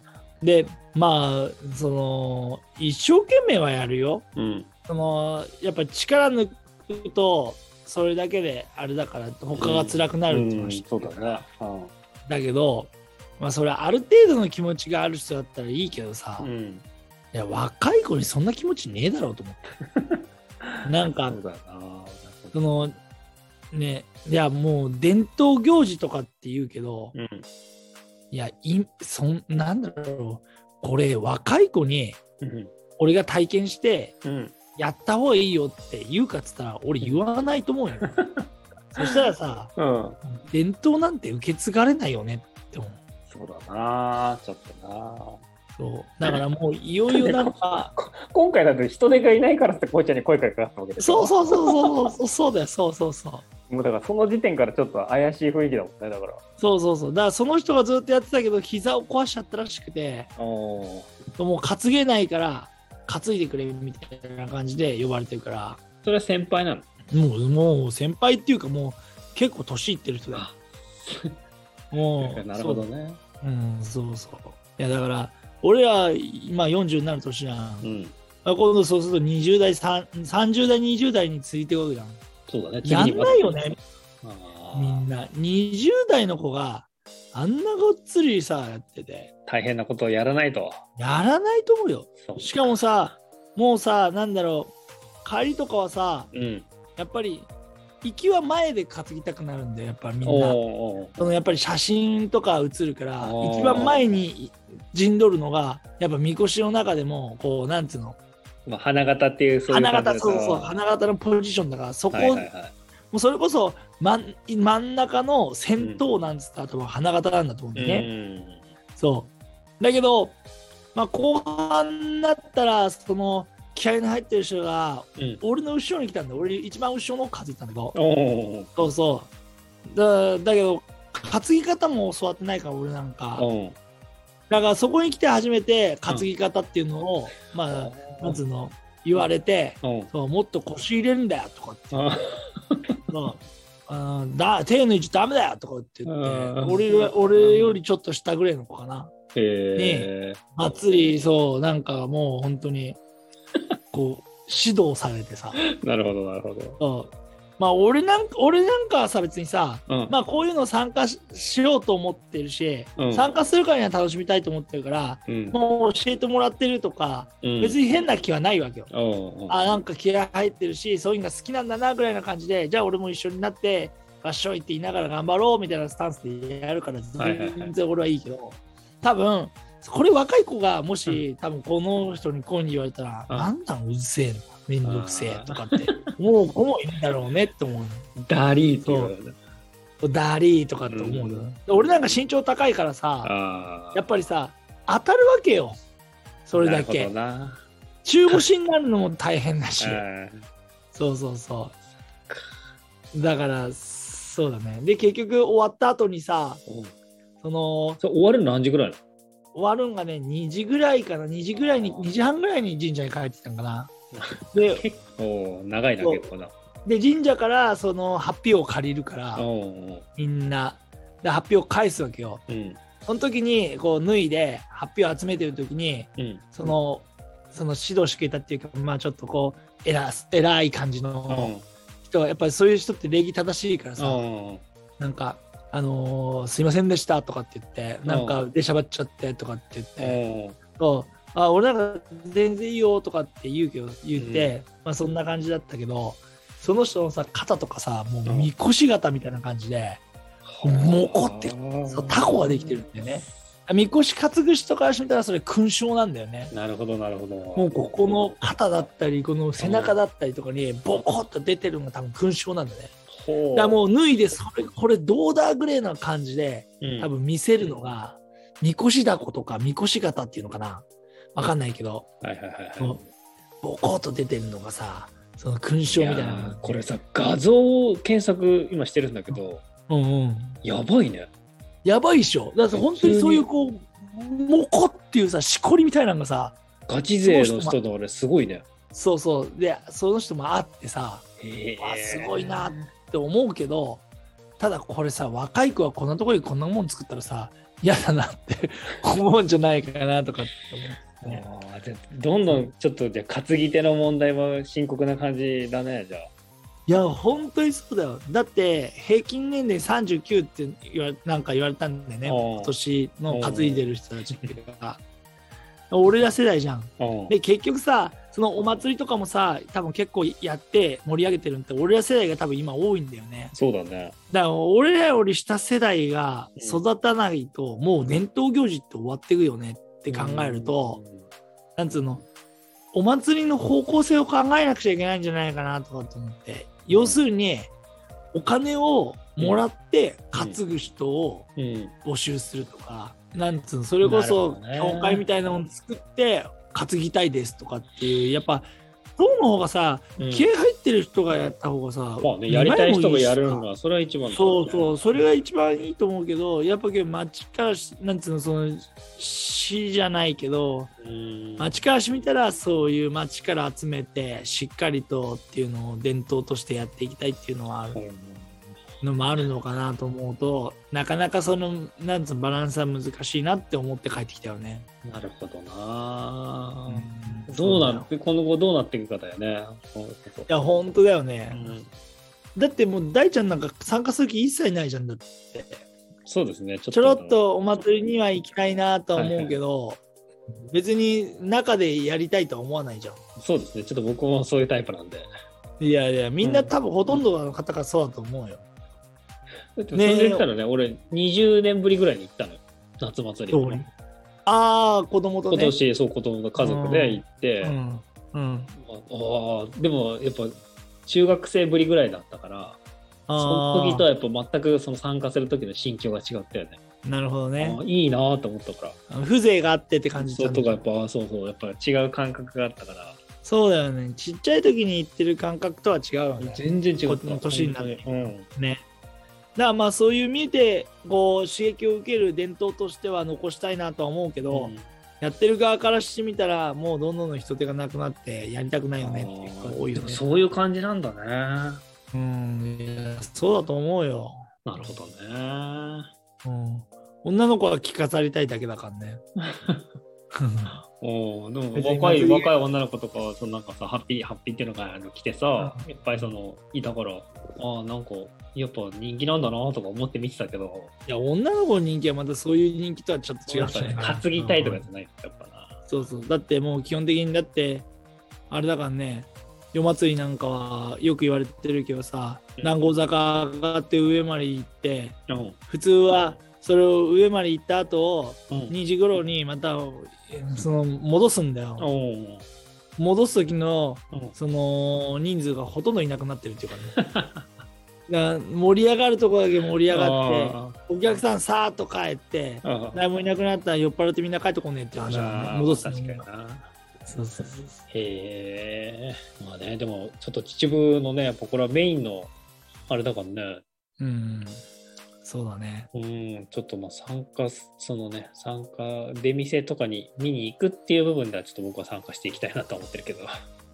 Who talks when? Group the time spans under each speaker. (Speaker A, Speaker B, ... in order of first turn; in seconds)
Speaker A: 0.4-4.2, 4.9-11.4, 12.2-16.5, 17.3-19.8, 20.8-21.4, 22.5-22.9, 23.7-27.1, 28.3-32.2, 33.0-34.2, 34.8-38.1, 38.9-43.0, 45.8-47.9, 51.0-53.4, 56.6-60.3, 61.4-65.8, 67.1-70.5, 71.9-72.9, 73.4-77.9, 78.4-82.2, 82.8-83.8, 84.7-89.3, 91.0-96.3, 97.0-97.5, 98.0-100.6, 101.2-108.2, 109.7-112.5, 113.1-118.1, 119.0-120.4, 120.9-128.0, 128.7-129.3, 129.8-133.5, 134.5-142.2, 143.1-149.1, 149.8-153.0, 153.9-155.6, 156.8-168.9, 169.5-188.1, 188.8-189.1, 190.0-193.3, 193.9-195.7, 196.4-197.1, 198.0-200.0, 200.9-201.7, 203.1-206.6, 207.4-208.0, 209.5-213.9, 214.5-214.8, 216.0-216.3, 216.8-219.4, 220.2-222.4, 223.0-234.2, 235.0-240.2, 240.8-250.0, 250.6-256.5, 257.6-262.9, 263.5-272.1, 273.6-276.9, 279.9-280.6, 281.8-286.6, 287.2-287.8, 288.9-291.2, 291.8-294.0, 294.6-301.4, 306.9-315.0, 315.9-323.5, 324.3-331.0, 331.8-332.2, 332.9-337.7, 338.3-341.5, 342.0-353.6, 354.3-360.9, 361.6-368.0, 369.0-374.9, 376.9-378.1, 380.5-381.8, 382.6-385.9, 386.9-390.0, 390.7-393.2, 395.8-398.6, 399.9-400.5, 403.5-403.9, 404.4-405.8, 406.6-408.7, 413.3-414.1, 417.0-417.8, 419.1-420.8, 423.4-428.8, 429.6-440.2, 442.1-444.9, 446.4-449.2, 450.3-450.8, 451.7-452.5, 455.6-456.3, 461.1-464.9, 465.9-467.9, 468.5-481.9, 483.0-487.0, 488.1-496.2, 497.0-497.8, 504.0-504.6, 505.2-505.9
Speaker B: 4.3-4.7, 9.6-11.9, 16.4-16.8, 19.9-22.8, 27.1-27.5, 32.4-32.7, 34.2-34.5, 38.0-38.4, 39.8-40.2, 43.3-45.4, 47.1-51.8, 53.7-56.4, 60.4-61.1, 66.0-66.8, 70.3-71.4, 72.2-73.2, 77.8-78.1, 82.5-83.5, 84.2-85.0, 89.5-90.8, 92.2-92.6, 96.3-96.7, 100.2-101.3, 103.2-104.1, 108.7-110.8, 112.1-112.7, 117.8-118.6, 125.2-125.4, 127.9-128.7, 133.4-133.8, 137.7-138.4, 139.8-140.1, 141.9-143.0, 146.1-147.8, 149.3-150.4, 155.7-156.8, 159.9-160.1, 163.0-163.3, 165.3-165.6, 167.4-167.8, 168.9-169.8, 177.2-177.7, 184.8-186.1, 188.2-189.3, 190.9-191.8, 193.2-194.1, 196.5-197.6, 199.8-200.4, 206.7-206.9, 208.0-209.0, 211.6-212.1, 214.1-216.5, 219.3-220.0, 222.5-222.8, 226.2-226.7, 231.3-231.7, 234.0-234.6, 238.1-238.5, 240.0-240.6, 244.2-244.5, 248.2-248.5, 250.4-253.3, 256.5-258.2, 259.6-260.0, 263.1-263.8, 266.8-267.1, 272.2-273.0, 275.9-279.6, 280.6-281.3, 282.7-283.4, 286.9-288.6, 291.4-292.9, 301.2-306.3, 312.2-312.7, 313.3-313.8, 317.0-317.4, 323.5-324.1, 326.6-326.8, 330.1-331.3, 336.9-337.2, 341.6-341.9, 344.0-345.2, 350.2-350.5, 352.2-355.2, 361.0-361.8, 367.9-368.8, 375.0-380.5, 381.5-381.9, 386.2-387.4, 389.1-389.6, 393.4-395.3, 396.4-396.7, 399.8-403.9, 405.5-407.8, 408.7-412.8, 413.4-416.8, 417.6-419.0, 420.2-423.2, 426.4-428.5, 434.5-434.9, 439.0-441.8, 444.6-446.1, 449.4-449.8, 451.0-460.9, 463.5-465.8, 472.6-472.9, 475.3-475.6, 478.5-478.8, 481.8-482.4, 486.9-487.5, 489.9-490.8, 492.6-493.0, 495.0-496.7, 497.9-502.3, 502.9-503.6, 505.9-513.3